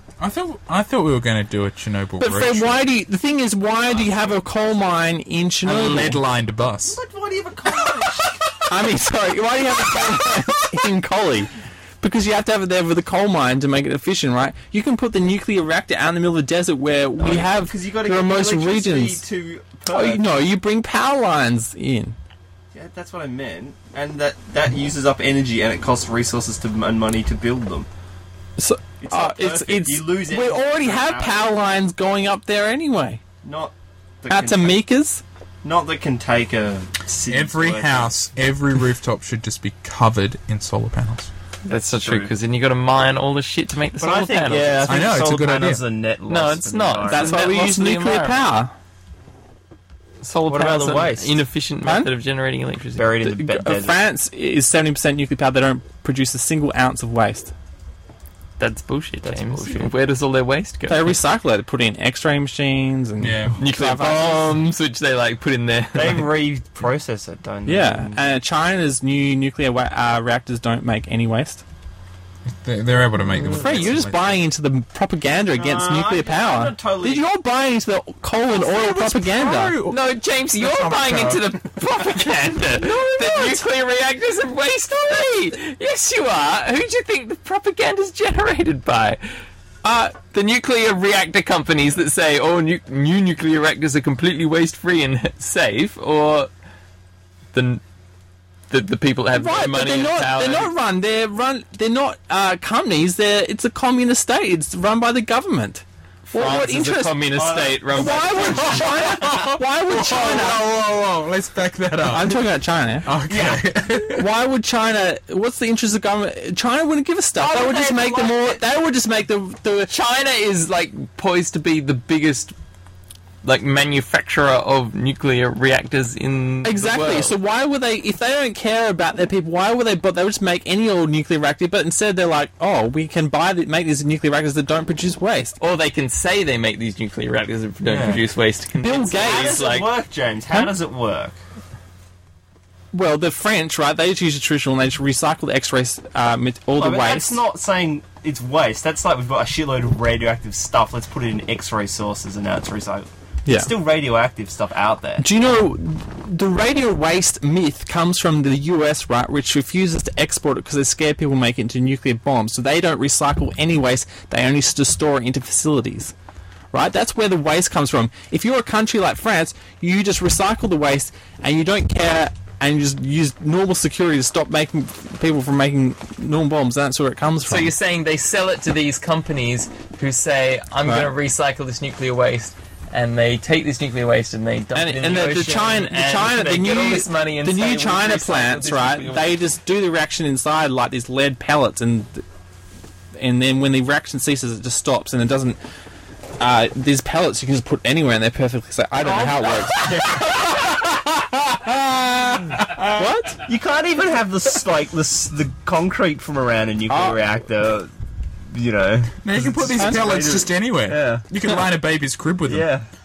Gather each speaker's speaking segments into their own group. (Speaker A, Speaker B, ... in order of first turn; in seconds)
Speaker A: 0.2-2.9, 5.6-7.0, 37.3-41.3, 44.8-45.8, 63.2-63.6, 72.5-74.4, 78.5-80.0, 80.5-81.5, 109.1-112.4, 113.0-114.3, 209.2-212.7
Speaker B: 2.2-6.2, 8.7-19.2, 19.9-22.1, 28.6-33.2, 34.3-35.2, 47.1-48.7, 51.8-52.1, 53.2-57.5, 60.9-64.6, 67.7-71.6, 73.5-79.8, 82.7-83.7, 89.8-90.2, 99.3-107.3, 107.9-110.7, 112.1-113.1, 114.1-119.9, 126.6-135.6, 138.8-139.5, 142.9-147.4, 153.5-153.7, 155.2-166.1, 166.7-177.7, 180.8-181.1, 184.7-192.2, 193.2-195.6, 196.4-203.4, 206.9-207.2, 209.8-210.1
Speaker C: 3.9-4.9, 6.8-8.9, 17.2-20.4, 22.7-27.9, 29.0-31.5, 33.4-34.8, 35.6-38.1, 41.7-42.3, 44.0-47.4, 50.5-51.3, 53.0-54.0, 59.2-59.9, 65.9-68.2, 75.5-77.3, 107.3-109.5, 113.2-113.7, 117.4-118.6, 137.8-138.3, 139.2-141.4, 146.8-155.3, 199.0-200.6, 203.4-207.9, 208.5-211.3, 212.4-212.9
Speaker D: 41.7-45.0, 46.3-48.4, 50.2-53.3, 58.6-61.2, 63.6-66.3, 73.4-73.9, 79.8-89.2, 90.2-96.5, 97.5-97.8, 98.7-100.7, 106.3-108.8, 119.9-122.5, 123.4-127.3, 135.6-139.9, 177.5-189.4